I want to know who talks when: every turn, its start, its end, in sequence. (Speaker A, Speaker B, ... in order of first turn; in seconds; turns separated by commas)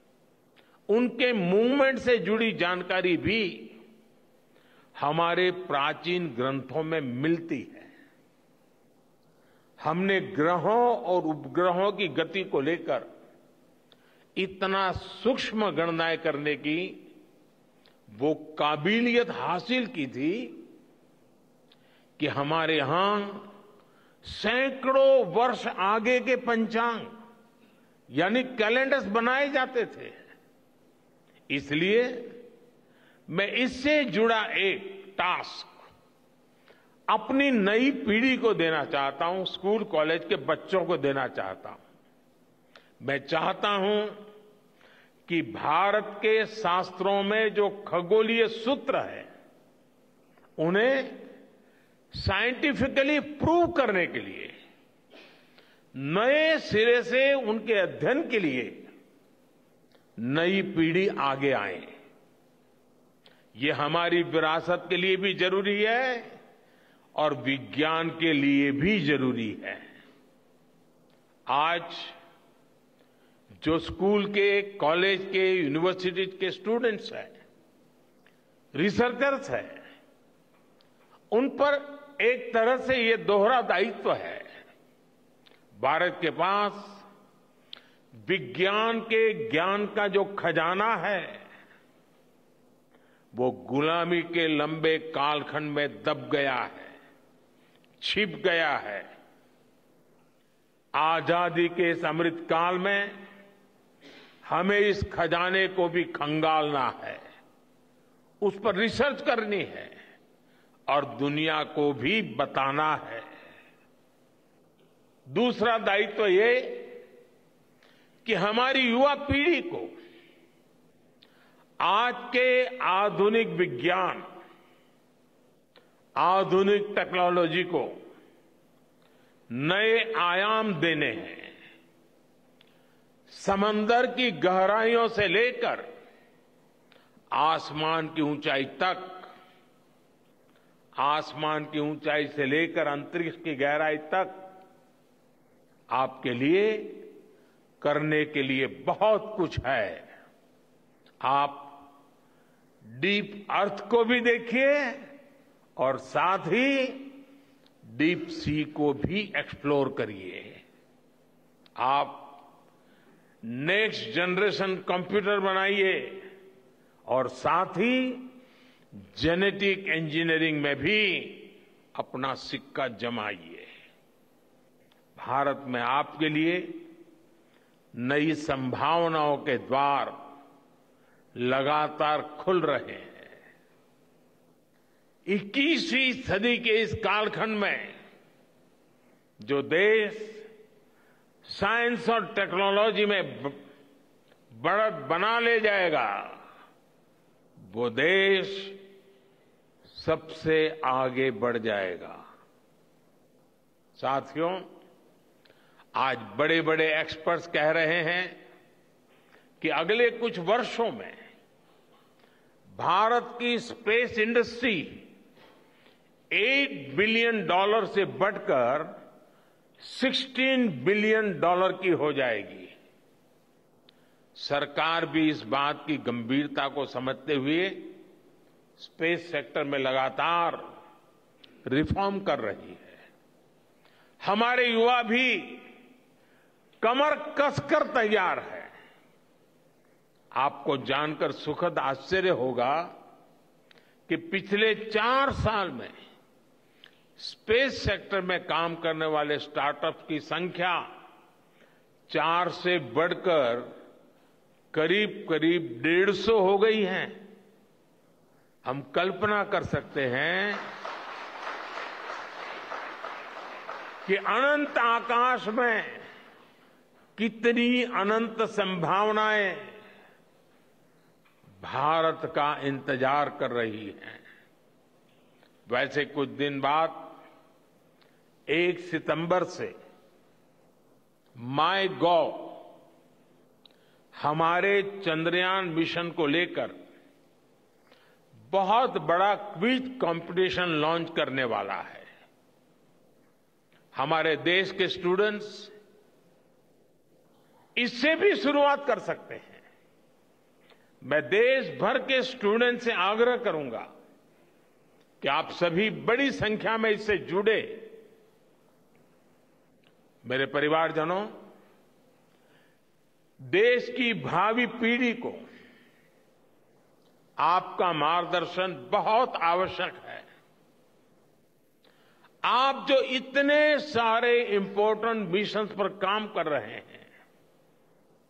Speaker A: 0.9-3.7, Speaker A: 5.0-7.9, Speaker A: 9.8-13.1, Speaker A: 14.4-16.9, Speaker A: 18.1-20.6, Speaker A: 22.2-23.5, Speaker A: 24.2-27.1, Speaker A: 28.1-30.1, Speaker A: 31.5-32.2, Speaker A: 33.3-35.9, Speaker A: 37.1-41.8, Speaker A: 43.0-44.2, Speaker A: 45.3-49.3, Speaker A: 50.6-51.2, Speaker A: 52.1-54.5, Speaker A: 56.0-58.8, Speaker A: 60.2-61.9, Speaker A: 63.6-66.3, Speaker A: 67.2-69.8, Speaker A: 71.5-72.2, Speaker A: 73.6-77.3, Speaker A: 78.8-79.8, Speaker A: 81.3-84.4, Speaker A: 85.8-87.0, Speaker A: 88.2-91.4, Speaker A: 93.3-96.9, Speaker A: 98.0-99.1, Speaker A: 101.0-103.1, Speaker A: 104.5-107.2, Speaker A: 108.4-109.9, Speaker A: 110.9-113.3, Speaker A: 115.3-116.9, Speaker A: 118.2-119.9, Speaker A: 121.8-124.2, Speaker A: 126.2-127.9, Speaker A: 129.5-131.5, Speaker A: 133.3-135.8, Speaker A: 137.3-139.3, Speaker A: 141.0-144.3, Speaker A: 145.9-147.0, Speaker A: 147.8-150.0, Speaker A: 151.2-151.7, Speaker A: 152.9-155.0, Speaker A: 155.8-157.2, Speaker A: 157.9-160.6, Speaker A: 161.8-162.3, Speaker A: 163.5-166.2, Speaker A: 167.1-168.2, Speaker A: 169.1-173.7, Speaker A: 175.2-176.8, Speaker A: 178.0-180.2, Speaker A: 181.4-183.3, Speaker A: 185.3-187.9, Speaker A: 189.4-190.4, Speaker A: 191.5-193.6, Speaker A: 194.6-196.3, Speaker A: 197.7-198.8, Speaker A: 199.9-202.2, Speaker A: 204.0-204.6, Speaker A: 206.0-208.4, Speaker A: 209.6-211.2, Speaker A: 212.8-215.0, Speaker A: 216.3-218.9, Speaker A: 219.8-222.7, Speaker A: 224.4-227.9, Speaker A: 228.8-230.6, Speaker A: 231.7-233.0, Speaker A: 234.2-235.6, Speaker A: 236.8-238.7, Speaker A: 240.4-242.9, Speaker A: 244.1-245.9, Speaker A: 247.2-250.8, Speaker A: 252.1-253.7, Speaker A: 254.7-257.2, Speaker A: 258.6-260.7, Speaker A: 264.1-266.0, Speaker A: 267.2-269.7, Speaker A: 271.6-274.2, Speaker A: 275.7-277.1, Speaker A: 278.5-279.7, Speaker A: 281.4-282.6, Speaker A: 284.2-286.8, Speaker A: 288.5-292.1, Speaker A: 293.9-295.7, Speaker A: 297.8-299.6, Speaker A: 301.0-303.9, Speaker A: 305.2-307.9, Speaker A: 310.2-311.3, Speaker A: 313.5-315.4, Speaker A: 317.4-320.2, Speaker A: 322.5-327.1